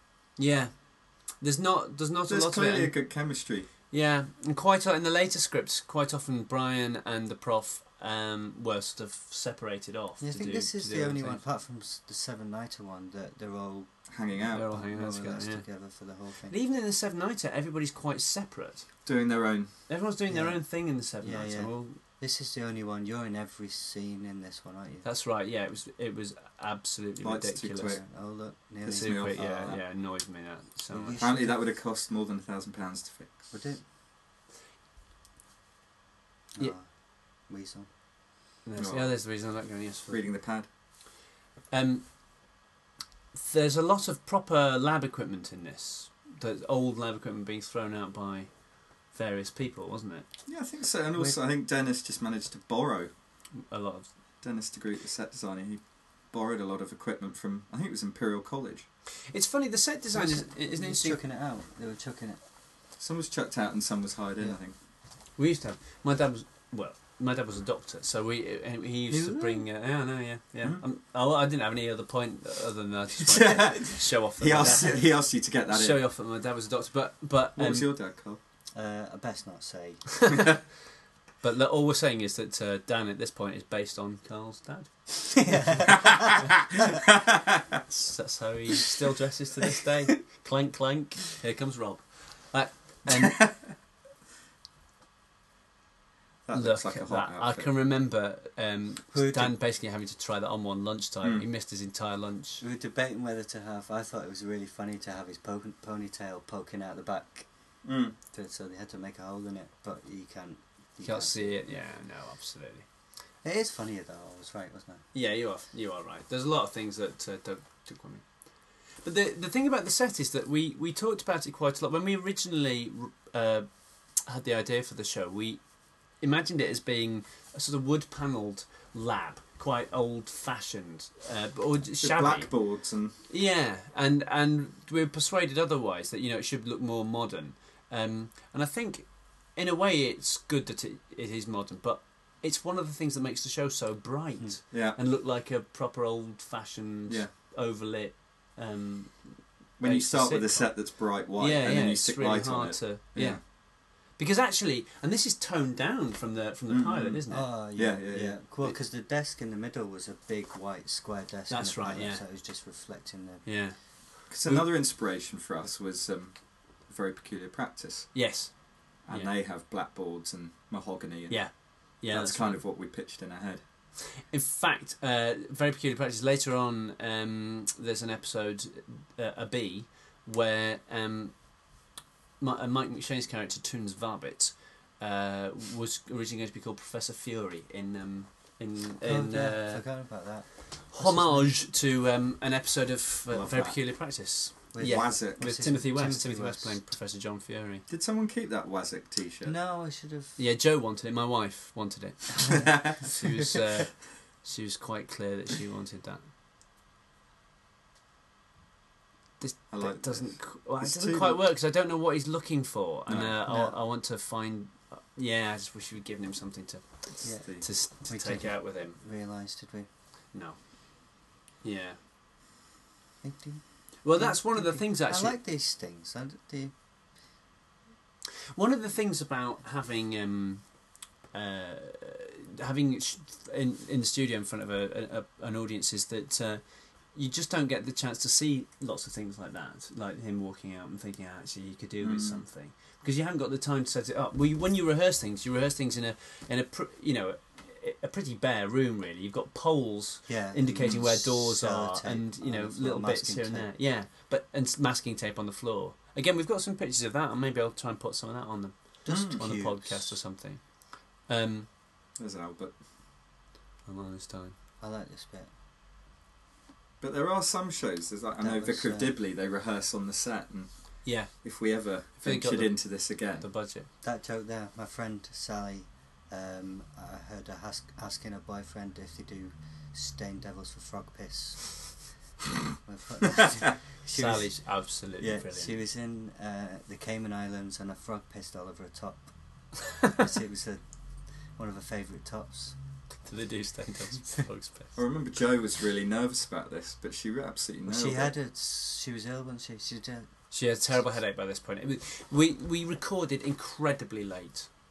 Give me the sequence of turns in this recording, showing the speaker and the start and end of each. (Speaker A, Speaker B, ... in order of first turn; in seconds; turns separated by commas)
Speaker A: 0.4-3.1, Speaker B: 2.3-3.7, Speaker A: 3.9-11.4, Speaker C: 10.2-16.5, Speaker B: 14.1-14.7, Speaker A: 14.5-15.7, Speaker A: 16.5-18.9, Speaker B: 19.1-19.8, Speaker A: 19.9-22.0, Speaker C: 20.3-25.1, Speaker A: 25.0-28.0, Speaker B: 27.2-28.0, Speaker C: 27.9-29.8, Speaker A: 28.9-31.2, Speaker B: 28.9-29.8, Speaker C: 30.9-31.6, Speaker B: 31.2-33.5, Speaker C: 33.5-33.8, Speaker C: 36.5-37.9, Speaker A: 38.6-40.3, Speaker B: 38.8-39.2, Speaker B: 40.1-40.7, Speaker A: 41.7-42.1, Speaker A: 43.3-50.2, Speaker B: 50.5-53.1, Speaker A: 53.5-54.1, Speaker B: 54.4-58.9, Speaker A: 59.3-61.2, Speaker C: 60.1-62.4, Speaker B: 63.0-64.7, Speaker A: 65.4-77.9, Speaker C: 69.1-69.6, Speaker B: 73.2-76.0, Speaker C: 74.6-75.0, Speaker B: 77.6-78.4, Speaker C: 78.7-80.2, Speaker A: 81.4-86.5, Speaker C: 85.4-86.3, Speaker B: 85.9-86.5, Speaker B: 87.1-87.4, Speaker A: 87.9-93.6, Speaker B: 93.1-93.7, Speaker B: 96.5-97.7, Speaker A: 96.5-102.6, Speaker C: 99.1-99.5, Speaker C: 102.6-107.5, Speaker B: 107.8-108.1, Speaker C: 108.3-111.7, Speaker A: 111.0-112.9, Speaker C: 113.4-115.0, Speaker A: 115.1-118.2, Speaker A: 119.0-132.7, Speaker B: 132.0-133.2, Speaker A: 133.2-157.5, Speaker B: 144.7-145.0, Speaker B: 149.8-153.4, Speaker B: 156.7-158.4, Speaker C: 157.3-163.6, Speaker A: 161.5-162.2, Speaker A: 163.4-164.7, Speaker B: 164.3-168.2, Speaker A: 168.1-169.3, Speaker B: 169.0-173.6, Speaker A: 171.3-172.6, Speaker A: 174.2-181.5, Speaker A: 182.4-189.8, Speaker C: 189.0-191.6, Speaker A: 190.9-197.8, Speaker B: 193.3-193.8, Speaker C: 194.7-196.8, Speaker B: 194.8-195.4, Speaker B: 197.9-199.5, Speaker C: 199.4-200.4, Speaker A: 200.4-206.2, Speaker B: 202.5-203.0, Speaker A: 209.4-219.0, Speaker B: 209.7-211.4, Speaker B: 213.1-213.3, Speaker C: 213.4-213.7, Speaker B: 217.2-217.7, Speaker C: 217.2-219.9, Speaker A: 220.3-222.0, Speaker C: 223.2-226.7, Speaker A: 224.0-225.4, Speaker A: 228.5-230.7, Speaker A: 231.3-261.7, Speaker B: 242.0-242.4, Speaker C: 250.3-253.7, Speaker C: 259.0-260.2, Speaker B: 259.1-259.4, Speaker B: 262.2-262.8, Speaker A: 263.9-264.5, Speaker C: 264.8-265.5, Speaker B: 267.0-273.5, Speaker C: 268.4-269.1, Speaker A: 271.0-271.4, Speaker A: 272.2-273.9, Speaker C: 274.0-281.9, Speaker C: 282.8-290.8, Speaker A: 284.1-285.8, Speaker C: 291.5-292.8, Speaker A: 293.2-294.9, Speaker B: 294.9-298.3, Speaker C: 297.9-300.3, Speaker A: 300.5-304.7